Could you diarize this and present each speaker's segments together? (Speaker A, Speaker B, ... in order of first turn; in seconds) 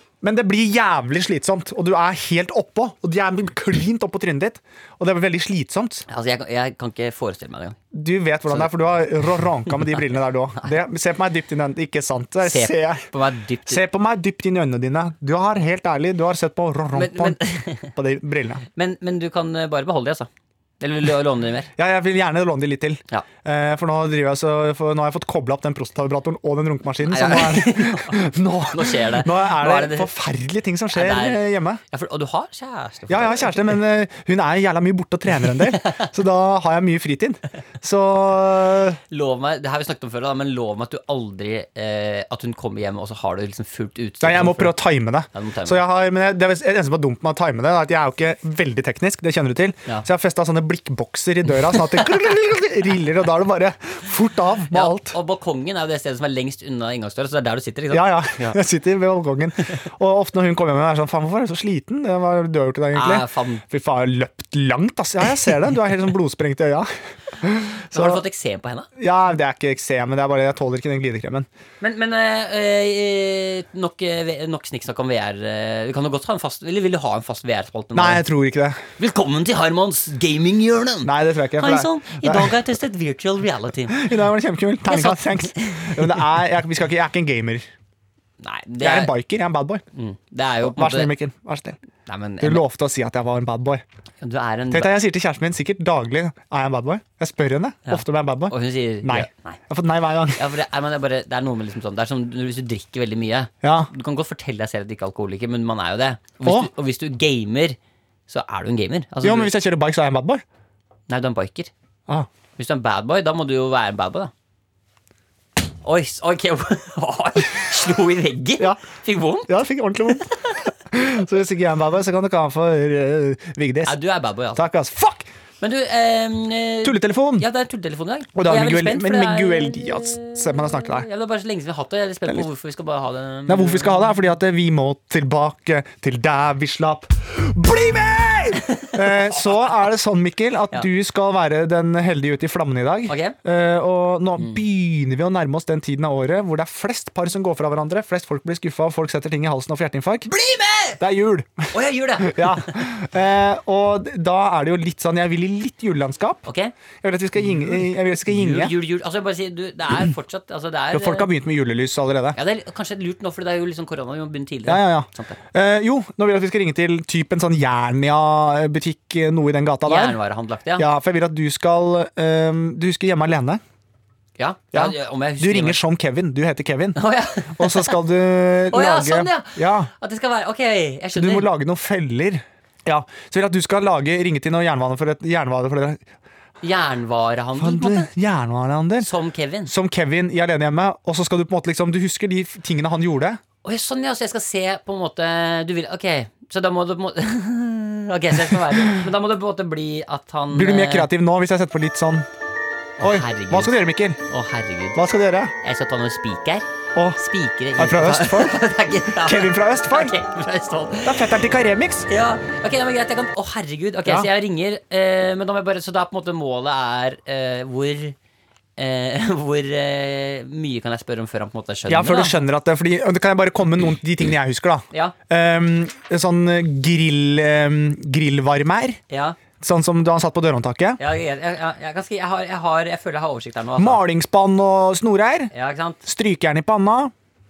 Speaker A: 0.2-6.0, 7.9-13.1, 13.7-18.6, 21.8-31.8, 33.1-39.0, 44.2-55.1, 57.9-68.2, 69.0-71.5, 77.9-78.8, 81.0-82.5, 83.9-87.7, 88.8-89.8, 90.6-91.8, 92.4-93.8, 94.7-100.4, 103.6-103.9, 106.4-106.7, 109.2-110.4, 119.5-120.3, 120.9-124.0, 124.5-125.3, 126.8-127.5, 128.3-131.1, 133.5-150.3, 151.0-156.4, 157.0-158.7, 160.9-162.4, 164.7-170.2, 170.8-173.6, 174.7-177.0, 177.5-179.9, 181.1-186.0, 187.6-189.1, 189.7-193.4, 198.4-199.1, 200.5-202.3, 203.0-204.2, 204.9-205.5, 207.8-208.6, 209.2-210.1, 211.0-212.1, 221.9-229.0, 229.6-231.0, 233.8-235.5, 236.0-237.1
Speaker B: 6.1-7.8, 8.5-8.7, 9.4-10.0, 12.4-13.8, 16.9-17.9, 18.7-20.3, 20.8-21.7, 27.1-30.1, 30.9-33.8, 35.4-36.1, 39.1-44.8, 45.3-45.8, 51.7-52.2, 54.7-58.6, 62.9-63.6, 67.9-68.9, 71.8-78.2, 79.0-84.0, 84.9-86.2, 88.4-89.1, 89.9-91.1, 92.0-92.6, 94.2-95.0, 97.9-99.6, 100.3-107.8, 108.3-109.5, 111.1-111.7, 112.6-114.3, 115.8-119.5, 123.8-124.6, 125.6-134.1, 143.1-143.3, 150.3-151.0, 151.7-152.9, 156.4-156.7, 157.4-161.3, 162.3-165.4, 169.8-170.9, 174.4-175.8, 176.9-177.9, 178.7-181.5, 186.6-188.1, 189.0-189.7, 193.6-201.1, 203.0-205.0, 205.6-211.3, 212.1-218.2, 218.8-222.3, 229.1-229.4, 231.0-234.0, 235.5-236.0